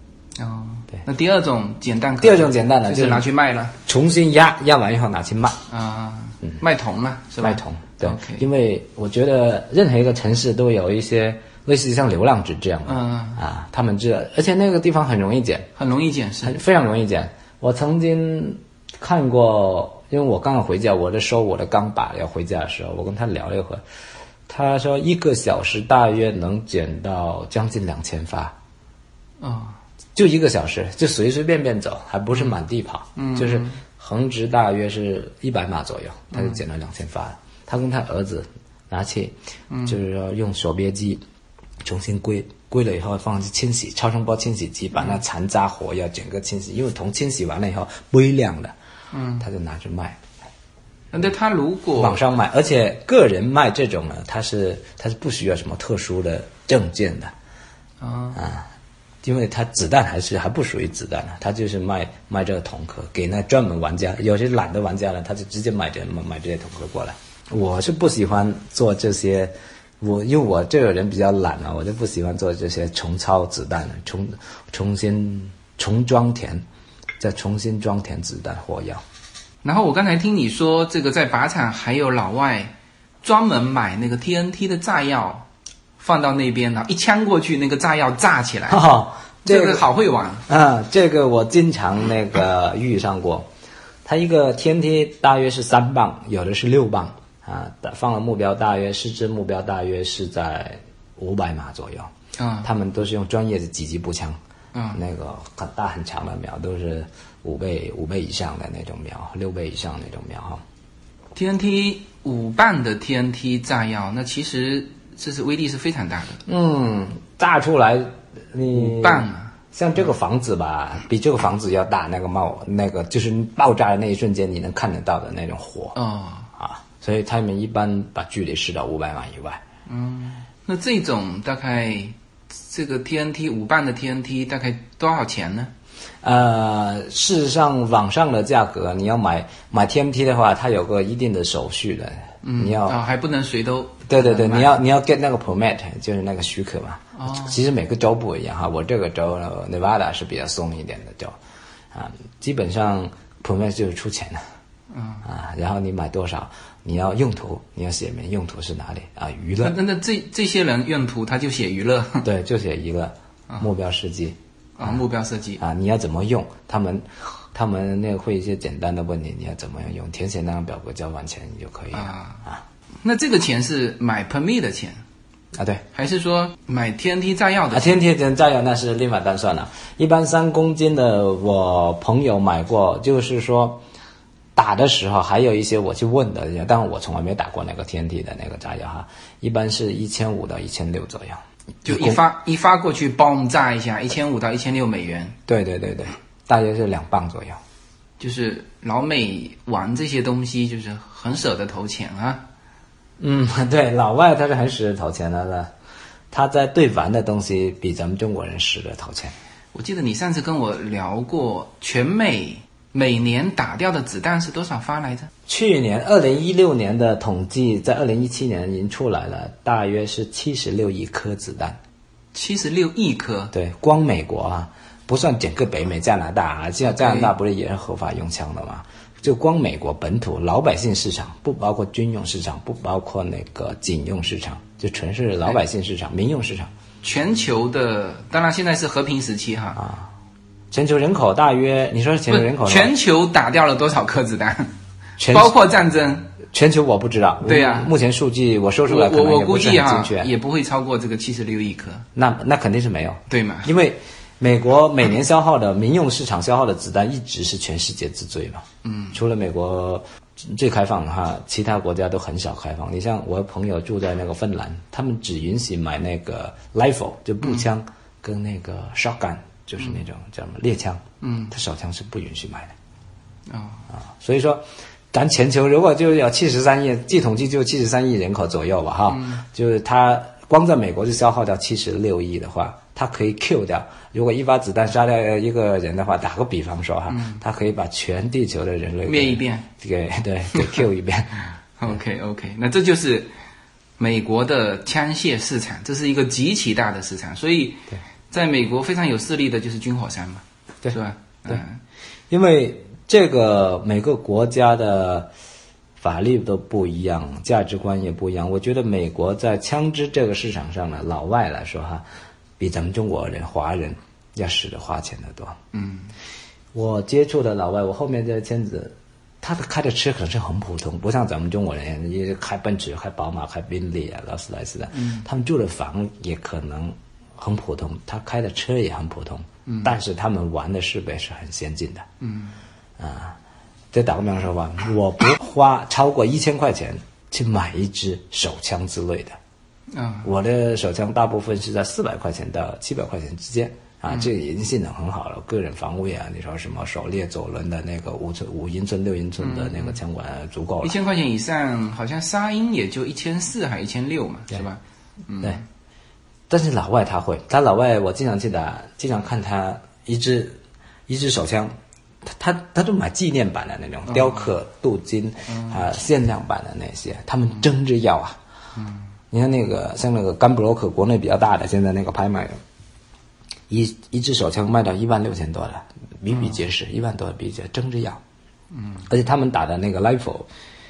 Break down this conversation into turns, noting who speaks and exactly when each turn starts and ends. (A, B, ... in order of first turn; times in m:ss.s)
0:00.4-0:03.7 A
0:02.2-0:03.3 B
0:03.8-0:05.6 B
0:05.7-0:08.4 A
0:07.4-0:15.7 B
0:12.8-0:13.4 A
0:15.8-0:16.6 A
0:16.4-0:23.8 B
0:24.5-0:28.5 B
0:29.4-0:29.8 A
0:30.1-0:39.3 B
0:33.2-0:33.8 A
0:36.3-0:36.6 A
0:39.7-0:40.0 A
0:39.8-0:41.2 B
0:41.8-0:48.7 B
0:49.1-0:49.4 A
0:49.4-0:50.2 B
0:51.1-0:52.2 A
0:52.0-0:57.3 B
0:58.0-0:58.4 A
0:58.3-0:58.7 B
0:59.2-1:16.6 B
1:17.2-1:19.0 B
1:19.6-1:25.5 A
1:26.0-1:28.8 A
1:28.7-1:29.9 B
1:29.4-1:30.5 A
1:30.5-1:33.5 B
1:34.0-1:42.1 B
1:42.4-1:42.7 A
1:42.6-1:44.4 B
1:44.7-1:45.0 A
1:44.9-1:50.6 B
1:51.3-1:56.4 A
1:56.4-2:06.0 B
1:58.7-1:59.5 A
2:05.9-2:06.5 A
2:06.6-2:09.6 B
2:09.9-2:15.7 A
2:16.2-2:23.0 B
2:22.4-2:24.8 A
2:24.1-2:31.4 B
2:27.2-2:27.6 A
2:31.9-2:34.4 B
2:34.9-2:35.2 A
2:35.2-2:39.8 B
2:39.6-2:42.2 A
2:42.2-2:45.0 B
2:44.8-2:45.6 A
2:45.6-2:52.6 B
2:51.9-2:52.4 A
2:53.0-2:55.0 A
2:55.5-2:55.8 B
2:55.9-2:58.0 A
2:57.7-3:03.8 B
3:04.5-3:12.2 B
3:11.8-3:15.4 A
3:15.5-3:17.6 B
3:18.2-3:22.4 A
3:23.2-3:25.7 B
3:26.3-3:29.3 B
3:29.7-3:35.3 A
3:35.5-3:41.8 B
3:42.3-3:43.5 A
3:43.5-3:56.7 B
3:46.8-3:47.3 A
3:57.0-3:59.8 A
3:59.8-4:00.1 B
4:00.7-4:02.9 B
4:02.3-4:04.7 A
4:05.2-4:05.5 B
4:05.3-4:06.3 A
4:06.5-4:10.3 B
4:07.4-4:07.9 A
4:08.9-4:12.0 A
4:12.1-4:32.7 B
4:13.3-4:13.7 A
4:18.8-4:19.2 A
4:31.2-4:31.5 A
4:33.5-4:33.8 A
4:33.9-4:51.5 B
4:39.1-4:39.4 A
4:47.1-4:47.4 A
4:49.0-4:49.7 A
4:50.5-4:50.8 A
4:51.8-4:53.3 A
4:54.0-5:01.8 A
5:02.3-5:05.3 B
5:06.0-5:12.0 B
5:12.6-5:15.6 B
5:15.7-5:16.1 A
5:16.7-5:32.0 B
5:24.9-5:25.2 A
5:29.7-5:29.9 A
5:32.2-5:32.6 A
5:33.0-5:33.4 B
5:33.9-5:39.4 B
5:39.9-5:40.3 A
5:40.2-5:51.0 B
5:49.4-5:50.0 A
5:50.8-5:55.6 A
5:56.5-6:08.4 B
6:04.1-6:04.5 A
6:05.5-6:05.8 A
6:09.3-6:12.6 B
6:13.7-6:18.2 B
6:18.7-6:19.0 A
6:19.1-6:20.5 B